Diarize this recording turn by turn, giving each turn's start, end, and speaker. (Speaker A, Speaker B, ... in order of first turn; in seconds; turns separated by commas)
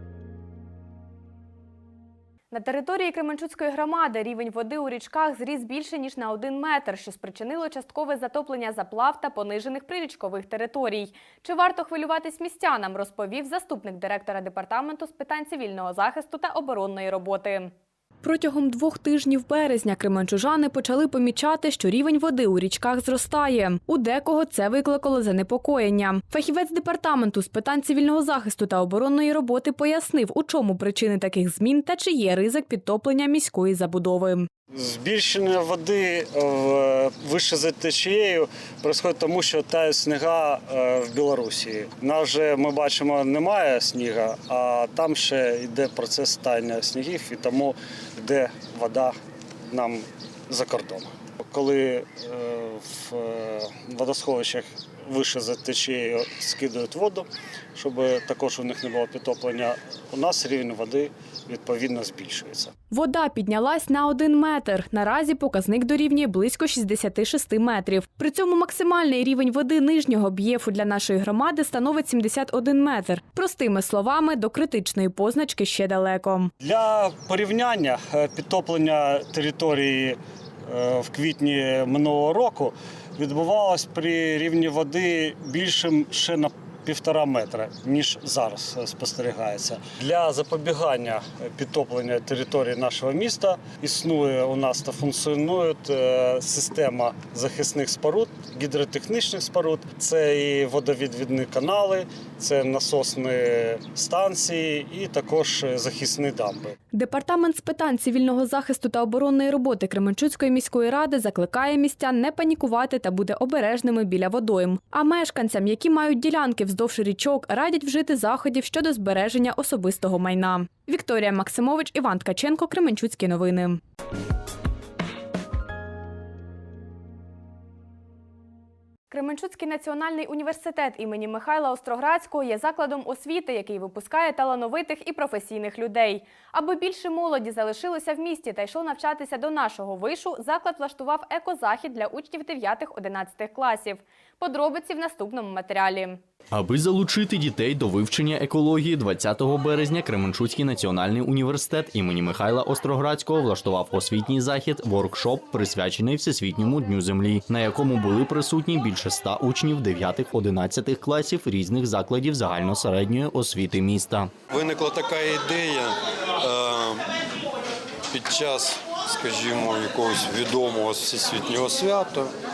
Speaker A: 2.5-34.5, Speaker B: 34.7-49.1, Speaker B: 49.7-62.7, Speaker A: 62.9-76.5, Speaker B: 76.6-106.7, Speaker A: 106.9-123.8, Speaker A: 129.1-146.2, Speaker C: 146.5-164.3, Speaker D: 164.5-167.0, Speaker D: 168.1-172.3